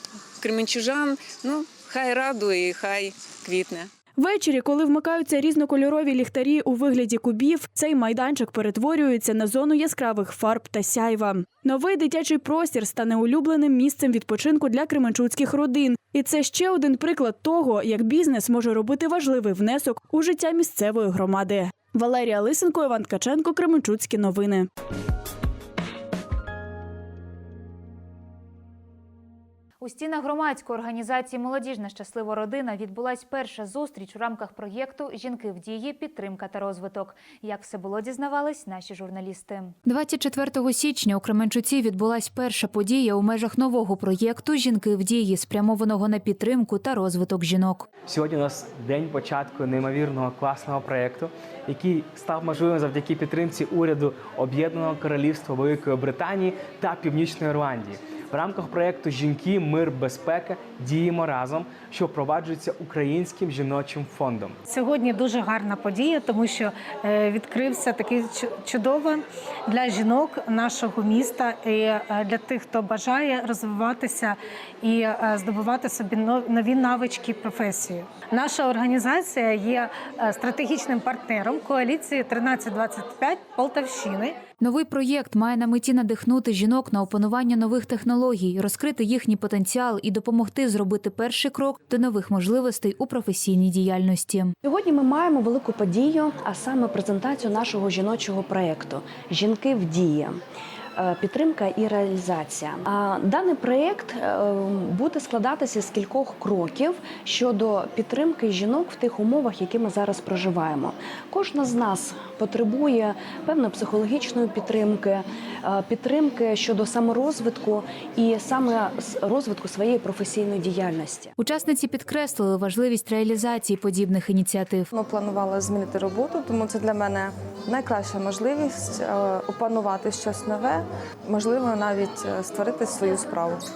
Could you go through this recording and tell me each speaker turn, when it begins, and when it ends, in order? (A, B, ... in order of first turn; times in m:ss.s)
0:00.4-0:03.9 A
0:04.2-0:24.7 B
0:29.8-0:47.8 C
0:48.1-1:04.6 D
1:04.7-1:24.4 E
1:24.6-1:34.5 C
1:34.6-1:40.4 F
1:41.0-2:01.3 F
2:01.4-2:04.9 C
2:04.9-2:13.6 G